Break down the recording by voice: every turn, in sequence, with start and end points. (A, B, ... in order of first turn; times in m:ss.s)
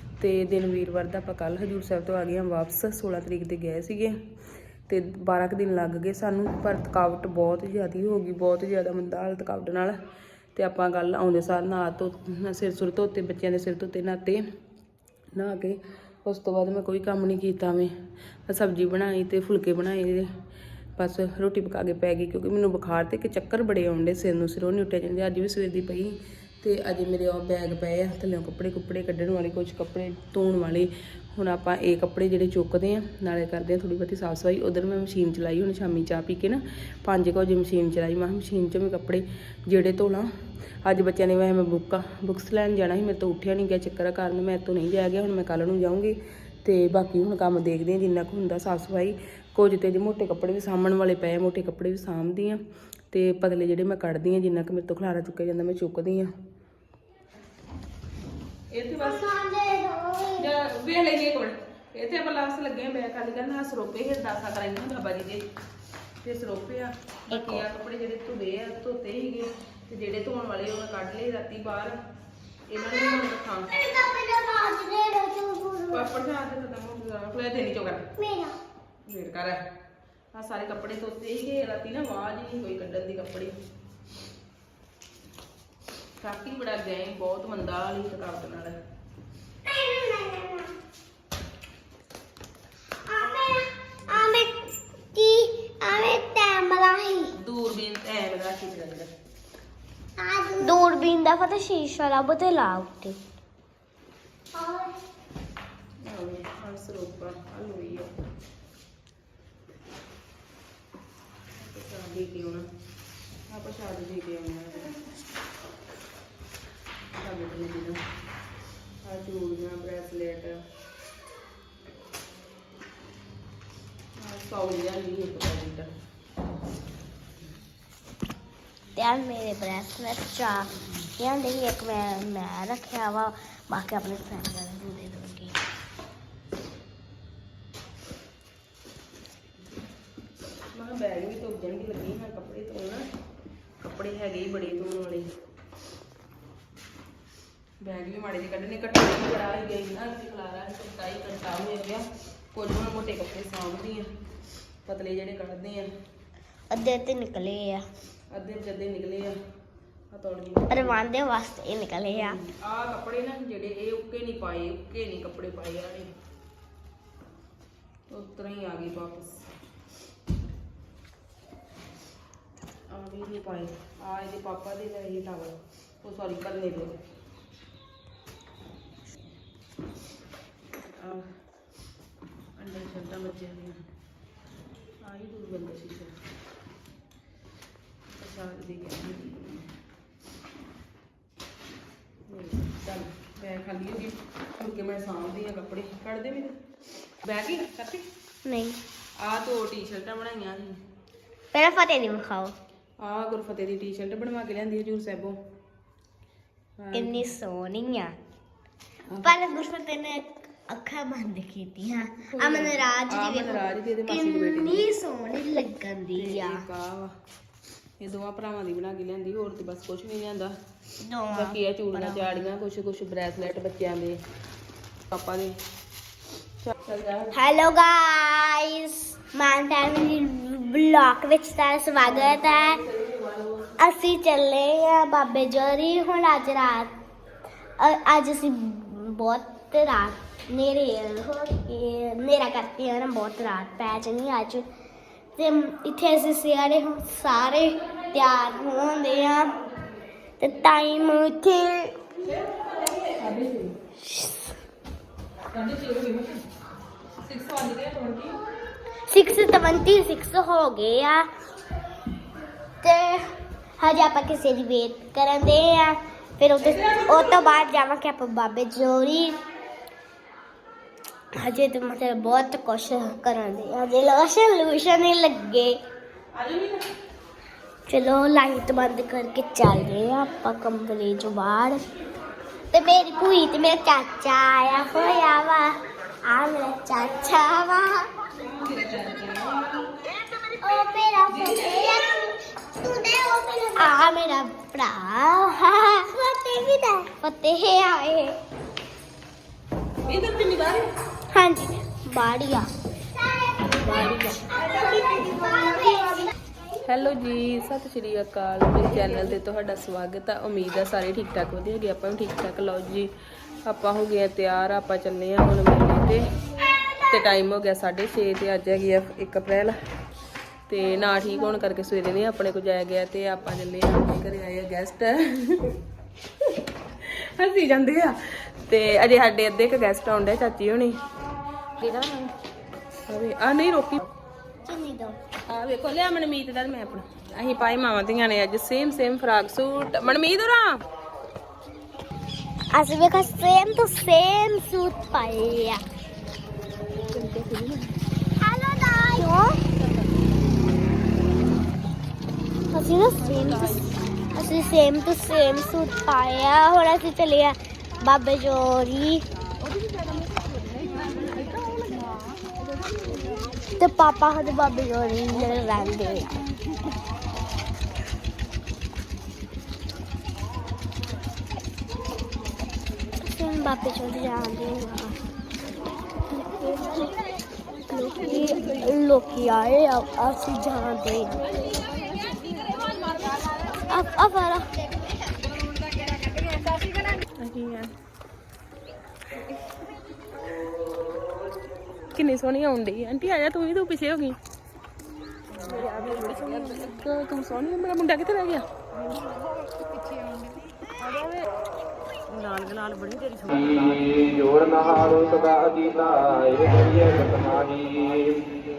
0:00.2-0:04.2 A
0:04.9-0:10.0 A
0:10.6-0:14.4 A
0:15.4-0:17.9 A
0:18.5-0:20.3 A
0:21.0-0:40.3 A
0:40.8-0:52.6 A
0:53.1-0:56.3 A
0:58.7-0:59.3 A
0:59.0-1:00.5 B
1:00.4-1:05.4 A
1:06.2-1:12.0 A
1:07.3-1:07.6 B
1:12.7-1:13.7 A
1:13.8-1:16.1 B
1:15.9-1:18.1 A
1:18.2-1:18.6 B
1:19.1-1:19.6 A
1:20.3-1:23.5 A
1:26.2-1:28.8 A
1:29.7-1:30.7 B
1:33.1-1:37.3 B
1:37.4-1:39.1 A
1:40.2-1:43.2 B
1:44.5-1:44.9 B
1:46.0-1:48.1 A
1:51.6-1:52.6 A
1:53.5-1:54.9 A
1:57.1-1:58.0 A
1:59.0-2:00.6 A
2:04.2-2:05.9 A
2:09.0-2:15.6 B
2:20.8-2:23.0 A
2:23.8-2:25.3 A
2:27.8-2:34.1 A
2:34.8-2:35.9 A
2:36.7-2:37.8 B
2:38.3-2:39.4 A
2:40.1-2:41.0 A
2:40.7-2:42.4 B
2:42.2-2:46.1 A
2:48.1-2:49.4 A
2:52.9-2:57.0 A
3:01.0-3:01.3 A
3:02.6-3:03.8 A
3:05.0-3:06.1 A
3:08.2-3:09.7 A
3:12.3-3:16.5 A
3:17.2-3:18.1 A
3:18.4-3:18.8 B
3:19.2-3:20.8 A
3:21.5-3:22.6 B
3:23.0-3:25.4 A
3:26.8-3:27.3 A
3:26.9-3:28.1 B
3:29.1-3:29.4 A
3:29.2-3:36.6 B
3:32.3-3:34.9 A
3:36.2-3:37.1 A
3:38.0-3:40.6 A
3:41.0-3:42.2 B
3:41.3-3:44.2 A
3:45.1-3:45.5 A
3:46.6-3:47.4 A
3:47.3-3:52.8 B
3:52.0-3:53.8 A
3:53.8-3:56.9 B
3:57.8-4:04.7 B
4:05.4-4:09.5 B
4:10.4-4:11.9 B
4:13.0-4:13.8 A
4:14.0-4:14.5 B
4:15.5-4:16.4 A
4:17.3-4:18.3 A
4:19.1-4:21.3 B
4:22.8-4:29.4 B
4:31.4-4:35.8 B
4:36.4-4:36.8 A
4:37.9-4:41.8 B
4:42.7-4:48.1 B
4:48.5-4:49.9 A
4:50.3-4:58.4 B
5:00.1-5:00.9 A
5:01.3-5:02.7 B
5:03.8-5:04.4 A
5:04.7-5:06.3 B
5:06.8-5:13.1 A
5:13.6-5:16.2 A
5:17.0-5:19.8 A
5:20.7-5:25.8 A
5:27.0-5:31.0 A
5:31.8-5:32.3 A
5:33.1-5:34.0 A
5:34.6-5:35.2 B
5:35.5-5:40.8 A
5:42.7-5:45.8 B
5:47.1-5:48.0 A
5:48.4-5:49.6 B
5:52.7-5:59.2 B
5:53.3-5:53.8 A
6:00.9-6:02.1 A
6:03.6-6:06.4 B
6:13.2-6:15.2 B
6:16.4-6:17.1 B
6:17.9-6:21.8 B
6:23.7-6:24.9 B
6:27.4-6:27.9 A
6:32.1-6:34.4 A
6:35.5-6:38.7 A
6:42.3-6:43.7 A
6:43.5-6:48.5 C